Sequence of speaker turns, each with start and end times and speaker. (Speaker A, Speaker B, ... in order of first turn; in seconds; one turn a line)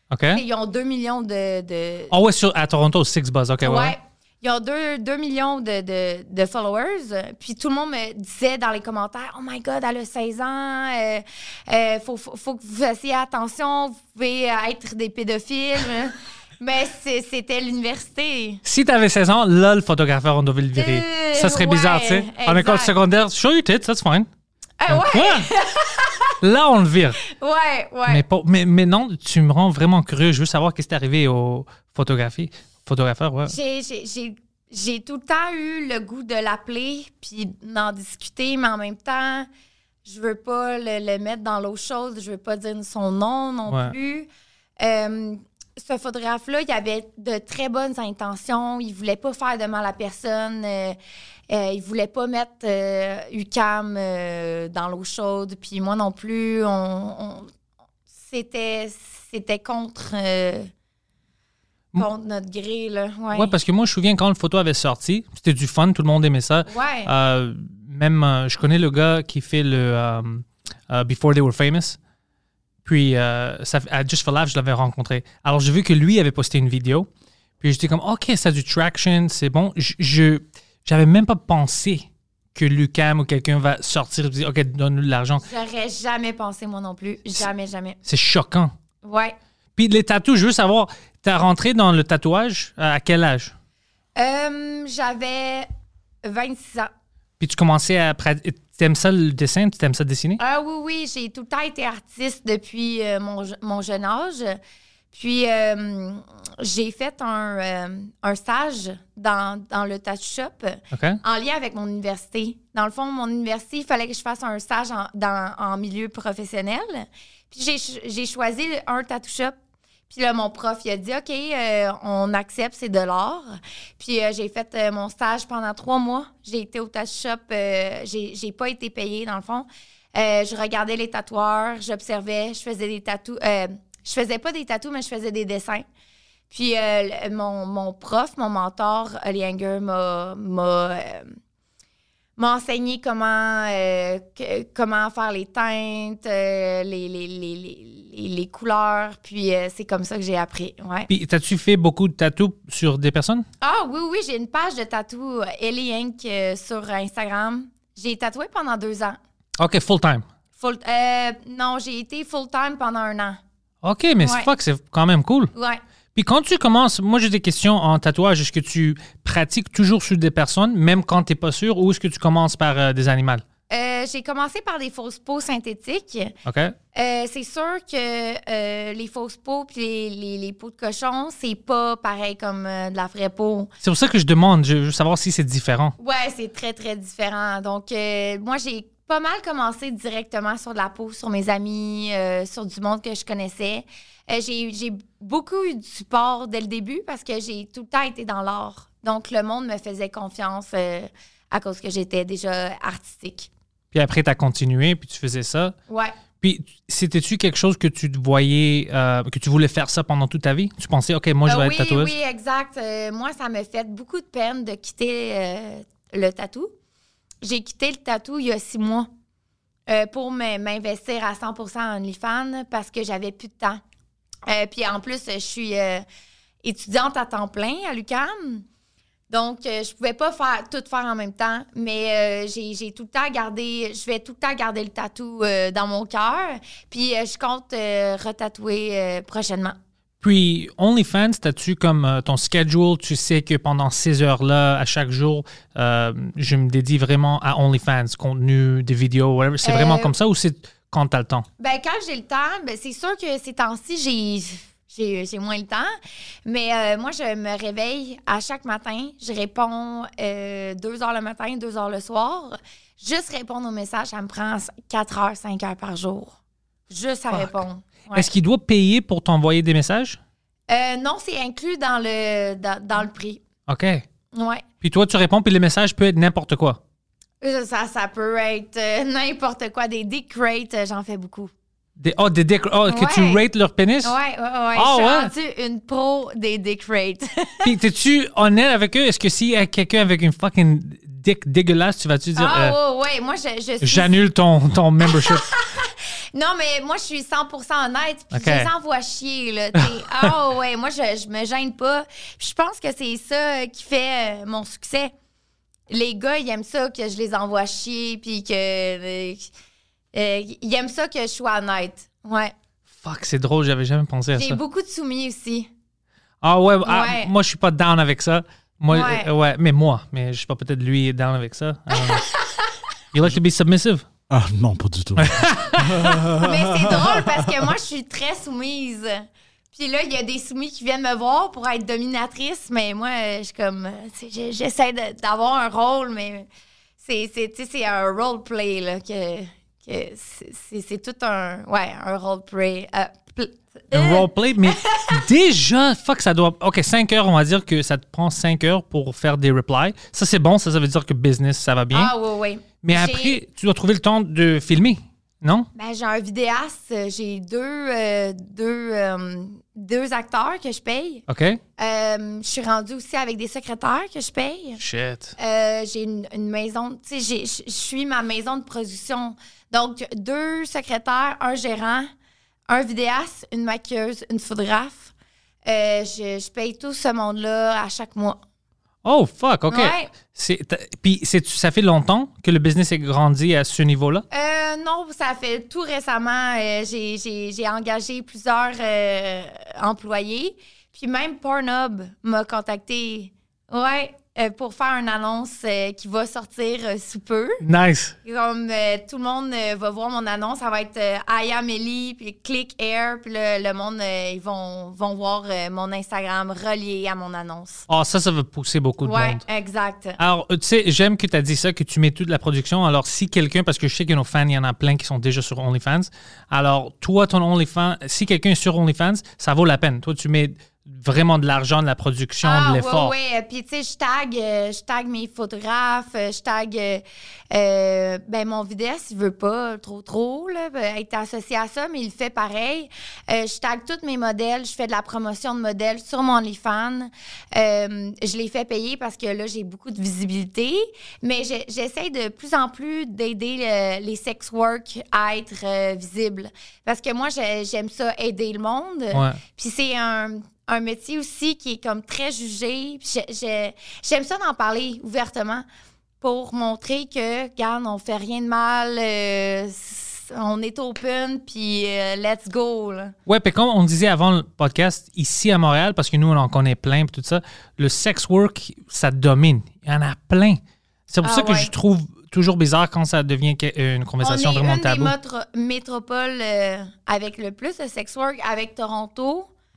Speaker A: 0.1-0.4
Speaker B: 0.3-2.1
Speaker A: 2.1-4.0
Speaker B: 3.6-18.6
Speaker A: 18.6-24.3
Speaker B: 20.8-22.9
Speaker B: 24.8-26.3
Speaker A: 24.9-25.5
Speaker A: 26.4-27.2
Speaker B: 27.2-28.2
Speaker A: 28.1-33.5
Speaker B: 33.5-39.5
Speaker B: 40.0-44.3
Speaker A: 43.7-44.0
Speaker B: 44.8-51.0
Speaker B: 51.5-57.5
Speaker B: 58.2-60.7
Speaker B: 62.0-63.5
Speaker A: 63.3-72.0
Speaker B: 66.7-67.1
Speaker A: 72.8-77.1
Speaker A: 77.6-85.5
Speaker B: 85.4-88.0
Speaker A: 88.0-88.7
Speaker B: 89.0-89.4
Speaker A: 89.8-93.5
Speaker B: 94.2-95.7
Speaker B: 96.2-96.9
Speaker A: 97.4-100.4
Speaker B: 100.4-104.6
Speaker B: 105.1-119.6
Speaker A: 110.9-111.2
Speaker B: 120.1-135.9
Speaker B: 136.5-141.4
Speaker B: 142.4-151.1
Speaker A: 151.1-153.4
Speaker B: 153.6-159.2
Speaker A: 159.6-160.2
Speaker B: 160.6-163.4
Speaker A: 163.8-165.5
Speaker B: 164.2-164.5
Speaker B: 165.6-165.8
Speaker A: 166.2-173.4
Speaker B: 173.7-176.3
Speaker A: 176.4-176.8
Speaker B: 176.9-183.7
Speaker A: 183.8-185.9
Speaker B: 186.0-203.5
Speaker A: 203.9-205.8
Speaker B: 205.9-206.2
Speaker A: 206.4-212.1
Speaker B: 211.5-216.7
Speaker B: 217.4-219.1
Speaker B: 219.9-223.8
Speaker B: 224.5-226.1
Speaker B: 226.6-228.7
Speaker B: 229.3-239.8
Speaker A: 240.2-251.5
Speaker B: 249.6-250.1
Speaker B: 251.6-255.9
Speaker B: 256.5-266.4
Speaker B: 266.9-268.3
Speaker A: 267.3-267.6
Speaker A: 268.1-270.2
Speaker B: 270.7-273.4
Speaker A: 273.7-274.0
Speaker B: 274.3-274.6
Speaker A: 274.8-276.8
Speaker B: 277.4-281.5
Speaker A: 282.0-284.1
Speaker B: 282.9-283.4
Speaker B: 284.0-287.7
Speaker A: 284.8-285.3
Speaker A: 287.6-292.8
Speaker B: 292.4-294.1
Speaker A: 293.8-295.5
Speaker B: 295.0-305.1
Speaker A: 298.3-298.7
Speaker A: 299.8-300.3
Speaker B: 305.9-309.5
Speaker B: 310.1-312.5
Speaker A: 313.0-314.6
Speaker B: 314.3-315.7
Speaker A: 316.4-322.2
Speaker B: 316.8-317.3
Speaker B: 318.9-319.3
Speaker B: 321.9-322.7
Speaker A: 323.1-324.1
Speaker C: 324.3-327.6
Speaker A: 325.2-326.1
Speaker B: 326.4-336.5
Speaker B: 337.0-345.2
Speaker A: 343.9-352.1
Speaker B: 351.9-353.4
Speaker A: 352.8-355.7
Speaker B: 355.8-361.2
Speaker A: 361.3-361.6
Speaker B: 361.8-364.8
Speaker A: 364.8-365.4
Speaker B: 365.4-372.1
Speaker B: 372.7-375.1
Speaker B: 375.7-378.4
Speaker A: 379.0-384.2
Speaker B: 379.7-380.1
Speaker B: 384.3-397.6
Speaker A: 397.6-398.1
Speaker B: 398.2-407.9
Speaker A: 407.9-409.4
Speaker B: 409.0-410.2
Speaker A: 410.2-423.1
Speaker B: 422.4-455.7
Speaker A: 449.1-449.4
Speaker B: 456.2-463.1
Speaker A: 463.2-475.1
Speaker B: 471.2-471.7
Speaker B: 474.2-479.5